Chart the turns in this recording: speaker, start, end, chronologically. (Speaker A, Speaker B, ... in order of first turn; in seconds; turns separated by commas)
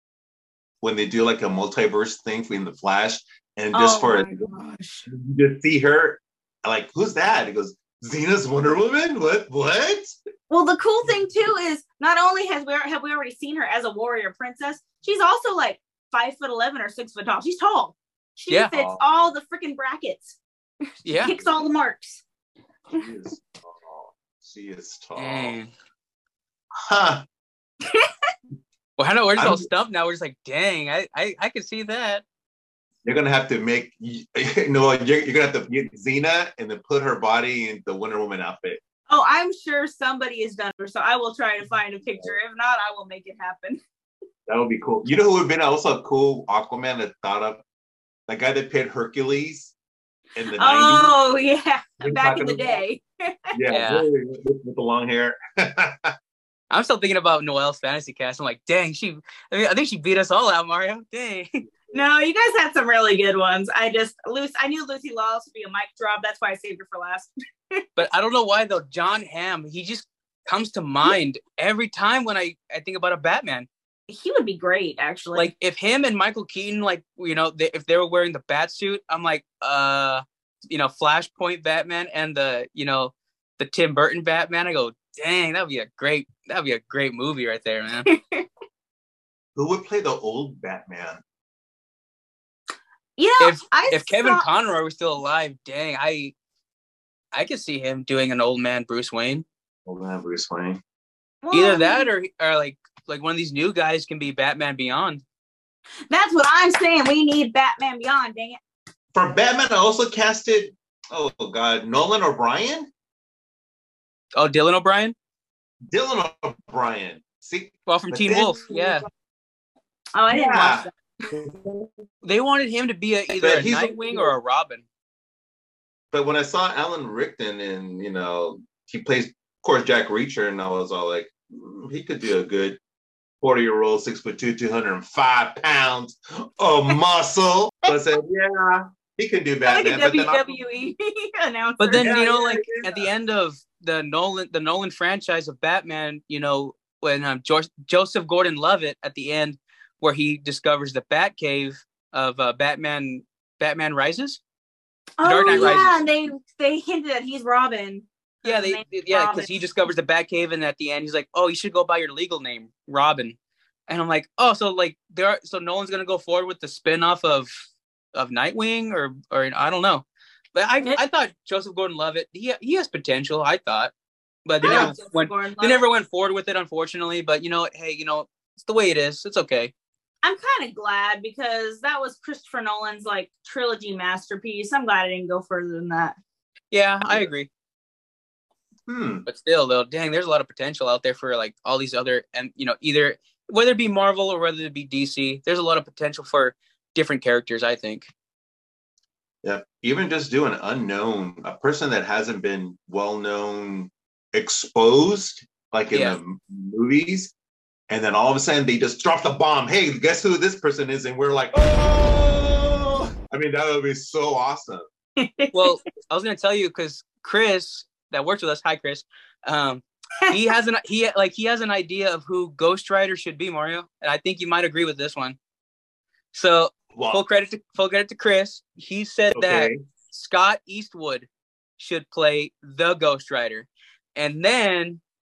Speaker A: 0.8-4.5, Speaker B: 3.7-5.1, Speaker A: 5.1-10.1, Speaker B: 10.5-20.4, Speaker A: 18.7-19.0, Speaker B: 21.0-22.2, Speaker C: 21.0-21.4, Speaker A: 22.9-25.6, Speaker C: 25.2-25.7, Speaker A: 26.8-27.2, Speaker C: 29.0-32.2, Speaker A: 29.4-29.7, Speaker A: 33.0-38.8, Speaker B: 39.1-43.8, Speaker A: 44.5-47.6, Speaker A: 48.3-49.7, Speaker A: 50.4-51.1, Speaker B: 50.6-53.5, Speaker A: 52.0-52.8, Speaker A: 53.5-56.1, Speaker C: 53.7-54.0, Speaker C: 56.7-61.6, Speaker B: 61.9-67.8, Speaker C: 68.0-73.7, Speaker B: 74.1-75.5, Speaker C: 75.3-88.1, Speaker B: 88.1-88.4, Speaker A: 89.5-91.2, Speaker B: 93.2-94.5, Speaker C: 93.4-96.3, Speaker C: 97.3-99.4, Speaker A: 99.8-100.8, Speaker B: 101.4-102.1, Speaker C: 101.5-105.2, Speaker B: 106.1-108.6, Speaker A: 109.1-112.9, Speaker C: 114.3-115.1, Speaker A: 115.9-119.0, Speaker C: 117.9-119.0, Speaker B: 120.1-120.9, Speaker A: 120.3-121.9, Speaker C: 122.2-124.8, Speaker A: 123.4-124.3, Speaker A: 126.1-132.8, Speaker A: 133.4-140.6, Speaker B: 139.7-142.1, Speaker C: 141.8-154.4, Speaker A: 141.9-143.1, Speaker B: 155.2-159.6, Speaker C: 155.2-156.0, Speaker C: 158.4-163.3, Speaker C: 163.9-167.6, Speaker C: 168.1-173.9, Speaker C: 174.4-179.7, Speaker B: 174.6-175.9, Speaker A: 174.6-174.9, Speaker B: 180.2-186.2, Speaker C: 186.7-187.5, Speaker A: 187.0-187.3, Speaker A: 188.9-189.2, Speaker C: 189.2-198.1, Speaker A: 199.4-207.3, Speaker C: 205.9-206.2, Speaker A: 207.9-214.8, Speaker B: 215.2-215.8, Speaker C: 215.5-225.4, Speaker C: 226.3-231.3, Speaker A: 226.9-227.2, Speaker A: 229.3-229.8, Speaker C: 231.8-235.0